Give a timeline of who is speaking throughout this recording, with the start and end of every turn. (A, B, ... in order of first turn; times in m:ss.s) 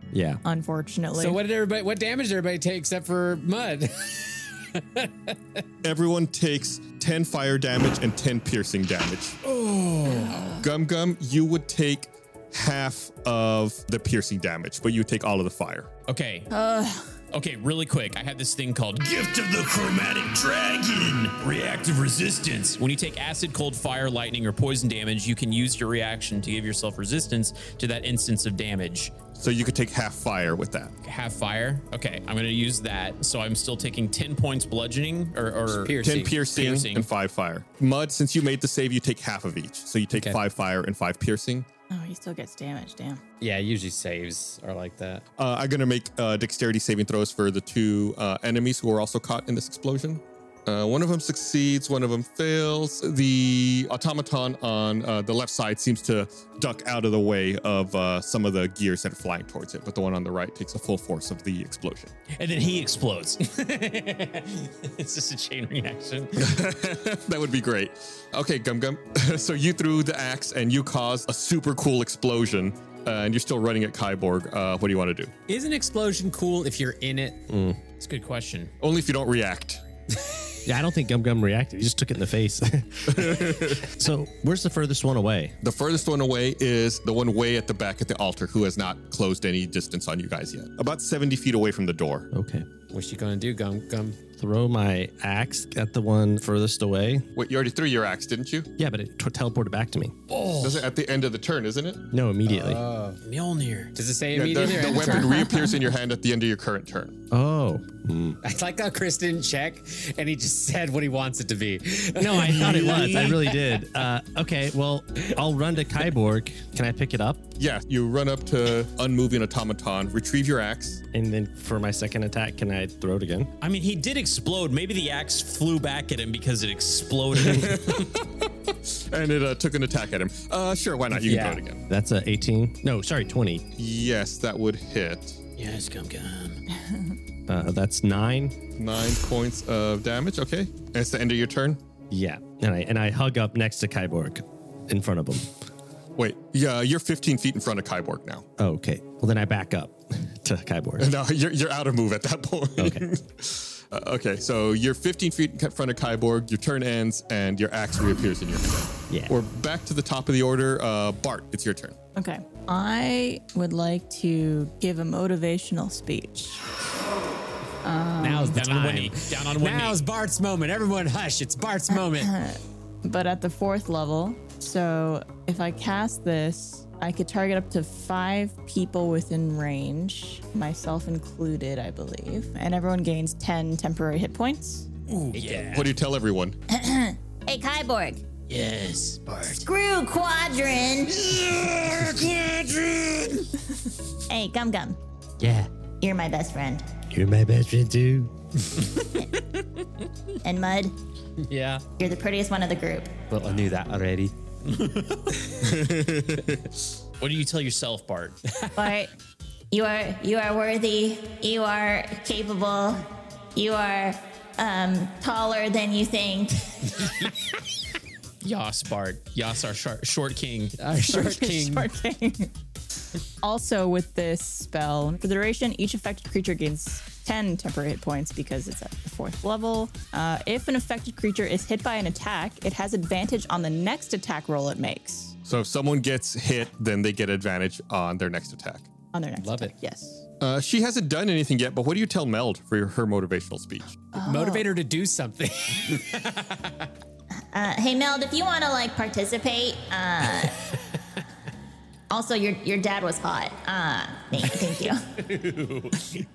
0:00.1-0:00.4 A
0:00.4-0:01.4 B
0:01.1-0:05.6 C
0:05.8-0:09.4 D
0:09.6-0:10.3 C
0:10.6-0:15.9 D
0:16.1-0:16.5 E
0:16.5-0:17.0 B
0:17.3-0:29.1 E
0:29.4-0:30.9 D
0:31.0-0:37.1 E
0:35.7-0:36.5 C
0:36.0-0:41.7 D
0:40.1-0:40.4 C
0:41.9-0:43.2 B
0:43.4-0:45.2 C
0:45.4-1:02.1 D
1:02.3-1:06.5 E
1:06.4-1:15.3 D
1:15.5-1:17.4 C
1:17.5-1:17.8 A
1:18.0-1:18.7 E
1:18.8-1:19.8 D
1:20.6-1:25.6 A
1:23.1-1:23.9 D
1:25.6-1:32.3 D
1:32.3-1:32.7 A
1:32.9-1:34.2 C
1:34.4-1:37.3 A
1:37.3-1:38.7 D
1:38.8-1:40.2 A
1:40.3-1:40.8 E
1:40.6-1:42.0 D
1:42.1-1:42.8 A
1:42.5-1:43.2 C
1:43.2-1:43.9 E
1:43.9-1:45.5 C
1:44.3-1:47.2 D
1:45.4-1:45.7 B
1:47.3-1:48.4 A
1:48.4-1:53.8 C
1:52.2-1:57.5 A
1:57.6-2:01.0 D
2:01.1-2:03.5 A
2:03.6-2:08.1 E
2:07.4-2:08.2 D
2:08.9-2:11.8 D
2:11.2-2:11.6 C
2:11.9-2:13.7 A
2:13.8-2:15.4 D
2:15.6-2:16.6 E
2:17.5-2:18.6 A
2:18.8-2:21.8 D
2:22.1-2:25.5 A
2:26.2-2:28.4 D
2:28.6-2:31.1 A
2:31.0-2:42.0 D
2:32.8-2:33.1 A
2:39.1-2:39.4 A
2:42.2-2:46.6 B
2:47.8-2:48.6 B
2:48.2-2:52.3 C
2:48.5-2:50.0 E
2:51.9-3:04.9 B
3:05.1-3:05.8 E
3:05.3-3:05.9 C
3:05.6-3:06.6 D
3:06.7-3:08.2 F
3:08.5-3:09.6 E
3:09.4-3:11.3 F
3:11.3-3:12.3 E
3:14.3-3:15.0 F
3:16.0-3:16.8 F
3:17.1-3:18.3 A
3:20.4-3:20.9 F
3:21.4-3:21.8 C
3:22.0-3:23.1 F
3:23.3-3:24.3 C
3:24.6-3:25.3 E
3:25.6-3:26.6 D
3:27.2-3:28.4 E
3:28.8-3:29.1 F
3:29.7-3:36.7 F
3:38.4-3:40.8 E
3:40.8-3:41.9 C
3:41.0-3:42.5 B
3:43.4-3:55.3 B
3:55.4-3:58.9 D
3:59.1-4:00.2 B
3:59.4-3:59.7 C
4:00.4-4:04.0 D
4:04.1-4:04.7 B
4:04.2-4:06.9 C
4:07.5-4:10.5 F
4:12.1-4:15.0 F
4:15.2-4:16.2 E